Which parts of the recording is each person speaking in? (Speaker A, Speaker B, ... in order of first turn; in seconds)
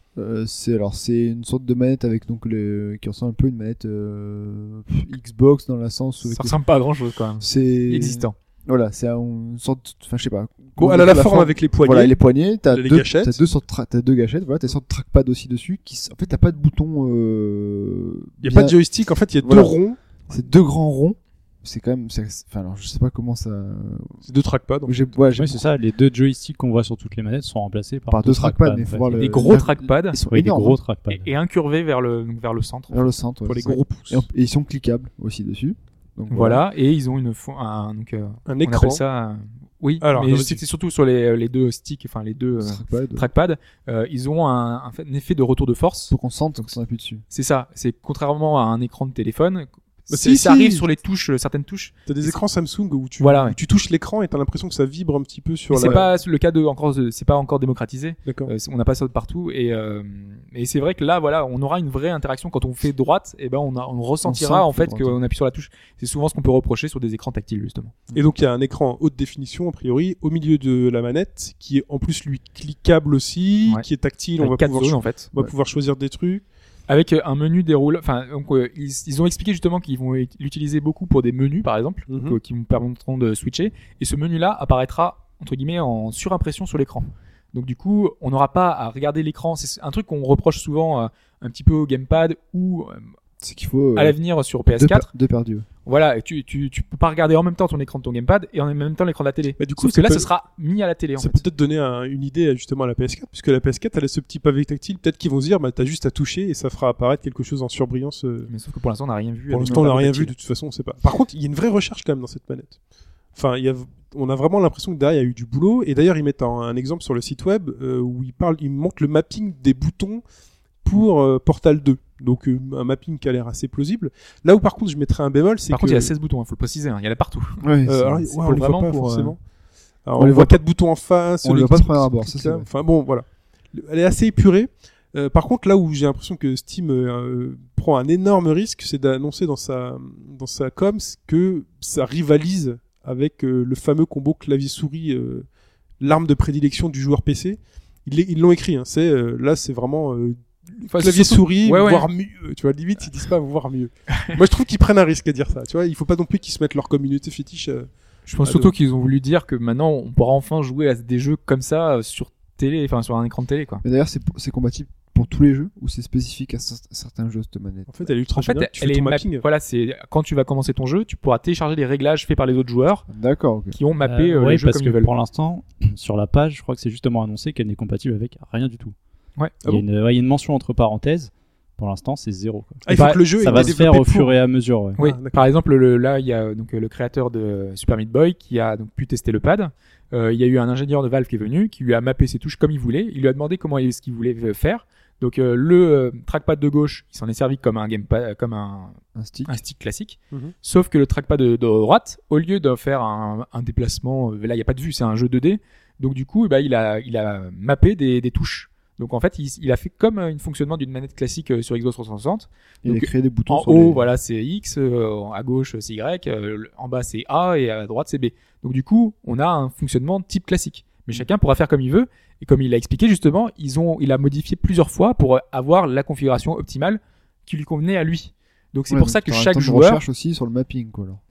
Speaker A: 0.1-6.6, 7.4-18.8, 19.4-19.8, 20.3-24.2, 24.8-25.7, 28.1-30.8, 32.9-36.6, 42.6-43.3, 46.1-47.2, 64.2-65.2, 93.4-94.2, 94.7-95.7, 127.6-128.2, 130.2-130.6, 131.4-132.7, 163.8-168.1, 173.1-173.8, 199.1-199.5, 212.8-214.1, 228.9-231.2
Speaker B: 6.2-8.3, 29.1-30.2, 31.1-33.1, 36.3-46.7, 47.3-52.4, 53.2-53.6, 55.7-68.0, 74.4-75.3, 76.9-93.1, 93.9-95.1, 95.8-101.4, 108.5-110.3, 125.7-127.6, 128.3-129.3, 150.9-152.1, 158.3-163.8, 168.3-173.0, 173.7-175.1, 182.9-183.7, 185.0-230.0
Speaker C: 10.8-12.2, 12.7-13.4, 18.4-20.0, 24.2-25.1, 33.5-34.2, 38.5-39.0, 40.0-40.6, 50.1-50.8, 52.1-56.1, 58.2-58.5, 68.1-76.4, 82.1-82.4, 99.6-100.3, 101.2-108.5, 109.5-112.8, 113.3-120.2, 120.8-126.1, 127.8-129.4, 130.1-145.4, 146.0-157.9, 158.4-158.7, 167.9-169.4, 182.8-184.3, 185.0-185.4
Speaker D: 25.3-29.6, 30.3-31.3, 174.0-178.9, 179.6-185.0